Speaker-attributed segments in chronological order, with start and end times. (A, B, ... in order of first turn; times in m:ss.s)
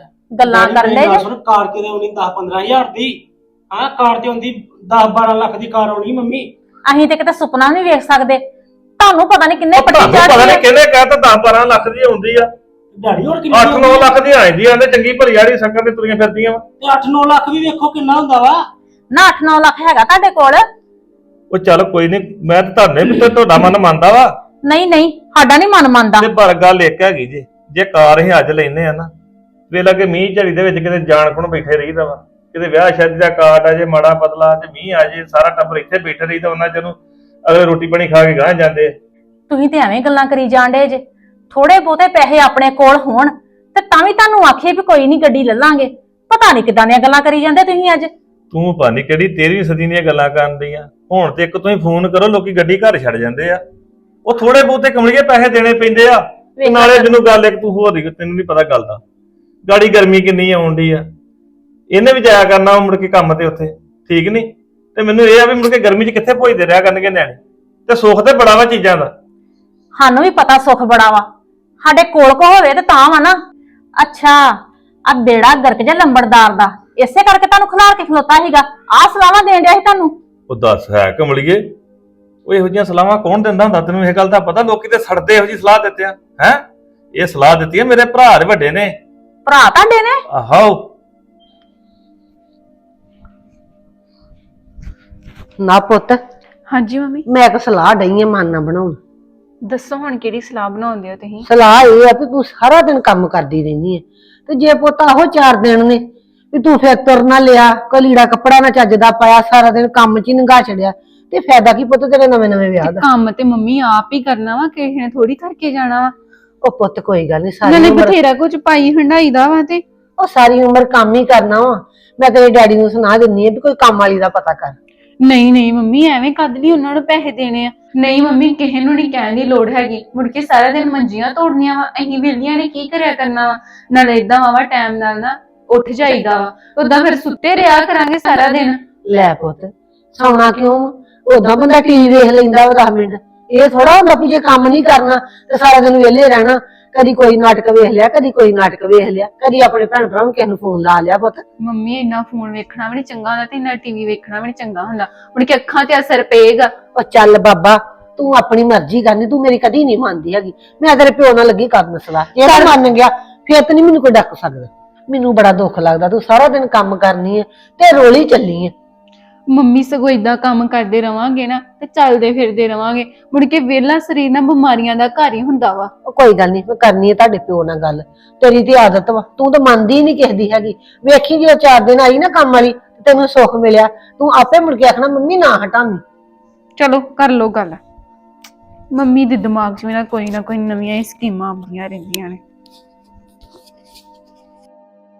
0:00.3-0:01.2 A
0:00.4-0:03.2 B
0:03.7-0:06.5 B
0:06.8-0:08.4 A
0:09.0-0:10.6 A
0:09.7-0:12.5 C
0:12.9-0:14.2 B
0:13.5-0:16.6 C
0:16.8-0:18.6 B
0:19.1-0:20.6 A
0:21.5-0:24.3 C
0:24.6-0:26.3 A
0:26.2-0:29.1 C
0:29.7-0:38.9 C
0:39.5-0:48.1 A
0:48.5-0:53.6 C
0:54.2-0:59.0 C
0:56.6-0:57.1 A
0:59.6-1:01.0 C
1:01.9-1:09.1 C
1:10.0-1:11.2 A
1:11.8-1:13.4 A
1:14.0-1:14.5 A
1:15.0-1:20.1 A
1:20.5-1:21.7 C
1:22.4-1:26.6 C
1:27.1-1:29.0 C
1:29.4-1:30.2 A
1:30.3-1:30.9 C
1:35.6-1:36.2 D
1:36.7-1:37.2 E
1:37.3-1:39.0 D
1:39.6-1:41.5 E
1:41.4-1:53.0 D
1:52.8-1:56.1 E
1:56.6-1:58.2 D
1:57.6-1:59.8 E
2:00.2-2:04.8 D
2:05.2-2:18.8 E
2:19.0-2:31.4 D
2:31.6-2:36.7 E
2:36.9-2:48.7 D
2:42.5-2:42.8 E
2:49.5-2:55.9 E
2:56.0-3:06.0 D
3:06.8-3:07.8 E
3:08.9-3:12.4 E